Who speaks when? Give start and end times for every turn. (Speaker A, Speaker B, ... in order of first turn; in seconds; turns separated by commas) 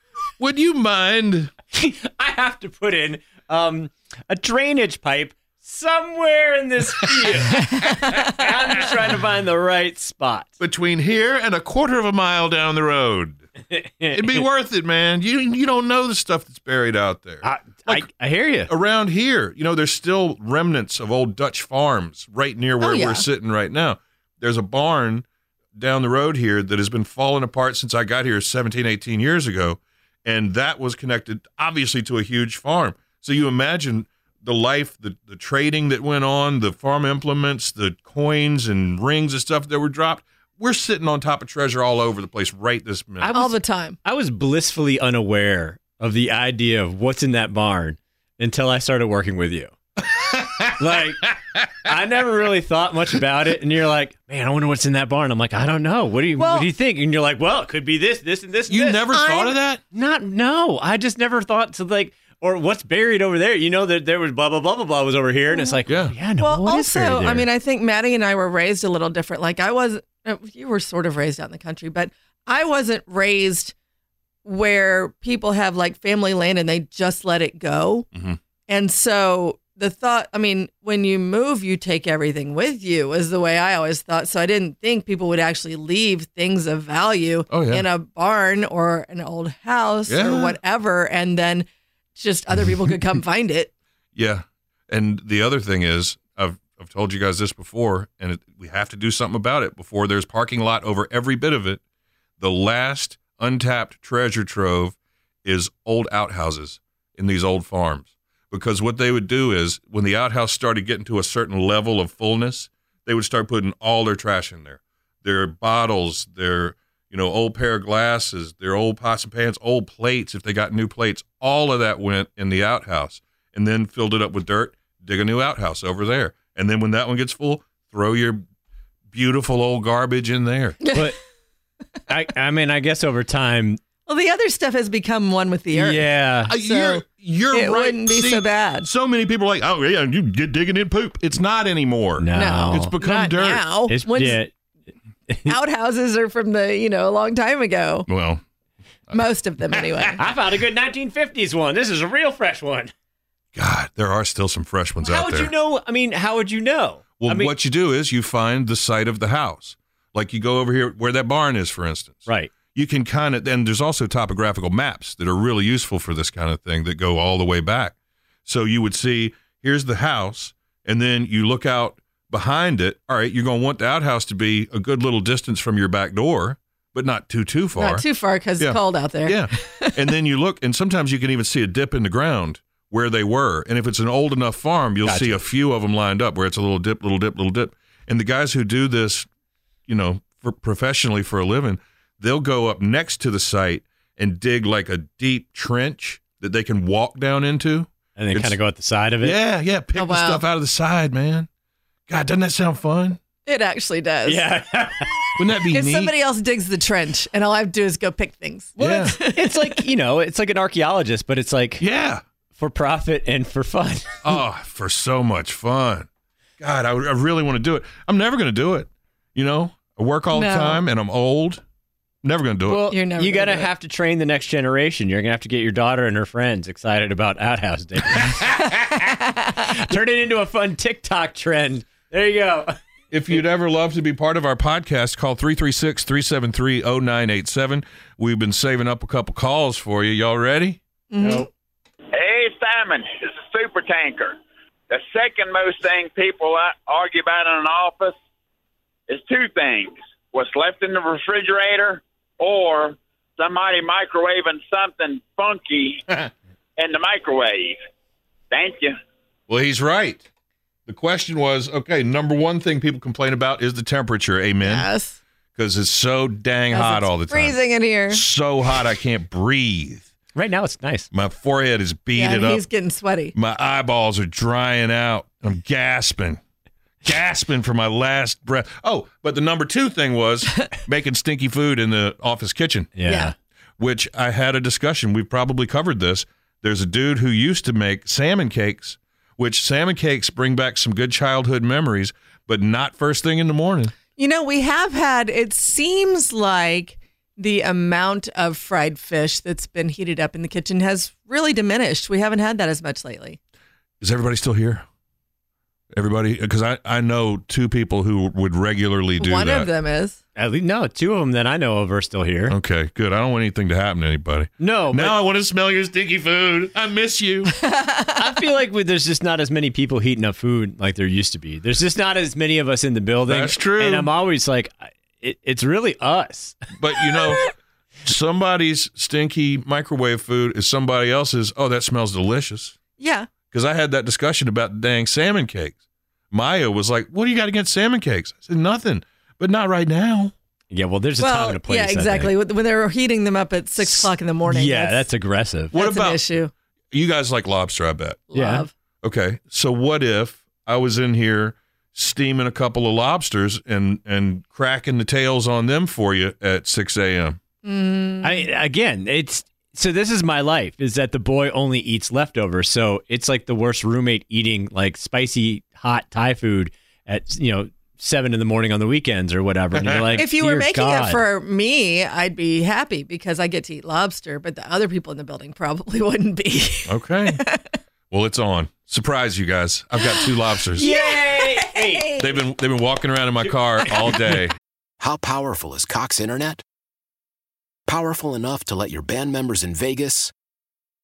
Speaker A: 0.4-1.5, Speaker B: 1.7-10.5, Speaker A: 7.0-8.1, Speaker A: 10.6-13.4, Speaker B: 13.7-14.5, Speaker A: 14.1-18.1, Speaker B: 17.4-18.7, Speaker A: 18.7-43.3, Speaker C: 22.8-23.3, Speaker B: 43.2-49.7, Speaker C: 43.3-44.0, Speaker A: 50.1-50.8, Speaker B: 50.8-51.3, Speaker B: 51.8-59.1, Speaker C: 56.4-56.7, Speaker A: 58.7-59.8, Speaker C: 59.1-59.5, Speaker B: 59.9-67.5, Speaker C: 65.5-65.8, Speaker A: 65.9-66.2, Speaker C: 66.4-73.7, Speaker C: 74.5-78.1, Speaker A: 78.1-78.4, Speaker C: 78.7-93.7, Speaker A: 87.5-87.9, Speaker A: 90.1-90.6, Speaker A: 94.2-101.8, Speaker A: 102.4-128.4, Speaker A: 129.1-130.8, Speaker C: 130.8-131.1, Speaker B: 132.1-133.8, Speaker C: 134.1-138.9, Speaker B: 135.7-136.5, Speaker A: 136.5-143.7, Speaker B: 142.2-142.9, Speaker C: 142.3-144.4, Speaker B: 143.9-144.5, Speaker B: 145.3-145.6, Speaker C: 145.5-148.1, Speaker A: 148.1-148.4, Speaker A: 149.1-150.1, Speaker C: 149.1-150.2, Speaker B: 150.2-152.9, Speaker A: 153.6-155.5, Speaker B: 155.0-157.5, Speaker A: 157.2-167.9, Speaker B: 162.3-162.5, Speaker A: 168.5-178.1, Speaker C: 177.8-180.1, Speaker A: 178.6-189.3, Speaker B: 185.0-185.4, Speaker A: 189.9-198.6, Speaker B: 198.2-199.4, Speaker A: 199.2-201.5, Speaker C: 200.0-200.4, Speaker A: 202.1-203.2, Speaker C: 203.5-204.4, Speaker B: 204.2-205.2, Speaker A: 205.4-206.1, Speaker C: 205.7-209.8, Speaker A: 208.8-209.2, Speaker B: 208.8-211.8, Speaker A: 211.8-212.2, Speaker B: 212.6-214.4, Speaker A: 214.2-216.1, Speaker A: 216.6-221.6, Speaker C: 220.3-220.8, Speaker A: 222.2-222.9, Speaker B: 222.7-232.8, Speaker C: 222.9-223.7, Speaker A: 233.1-240.8, Speaker C: 241.1-241.5, Speaker B: 241.2-241.5, Speaker D: 242.1-244.4, Speaker D: 244.9-248.2, Speaker D: 249.1-256.1, Speaker D: 256.8-257.8, Speaker D: 258.5-259.0, Speaker A: 259.5-260.3, Speaker A: 260.9-264.9, Speaker C: 264.6-265.2, Speaker A: 265.6-267.6, Speaker C: 266.7-268.2, Speaker A: 268.1-270.1, Speaker B: 270.4-271.1, Speaker A: 271.1-272.6, Speaker C: 272.2-273.3, Speaker A: 273.3-276.4, Speaker A: 277.0-283.0, Speaker B: 283.0-283.4, Speaker C: 283.1-283.3, Speaker A: 283.8-293.9, Speaker C: 294.1-303.4, Speaker A: 304.0-304.9, Speaker A: 305.9-309.7, Speaker C: 309.2-310.2, Speaker B: 310.4-312.6, Speaker A: 312.5-317.5, Speaker B: 314.6-315.2, Speaker C: 317.6-318.3, Speaker B: 318.2-326.6, Speaker A: 323.3-324.1, Speaker A: 326.8-327.4, Speaker A: 328.1-332.8, Speaker C: 333.0-333.3, Speaker A: 333.4-335.8, Speaker A: 336.3-340.3, Speaker B: 340.7-342.3, Speaker C: 341.2-345.0, Speaker B: 343.8-345.8, Speaker A: 345.7-346.2, Speaker C: 345.7-346.5, Speaker A: 346.9-348.3, Speaker C: 348.3-348.7, Speaker B: 348.4-348.7, Speaker A: 349.0-357.4, Speaker C: 357.6-358.5, Speaker B: 358.2-371.2, Speaker A: 369.8-370.2, Speaker C: 370.2-377.6, Speaker A: 376.9-377.4, Speaker A: 378.1-380.9, Speaker C: 380.0-382.4, Speaker B: 380.8-382.1, Speaker A: 382.2-384.5, Speaker B: 383.4-384.2, Speaker E: 385.0-386.6, Speaker E: 387.9-390.3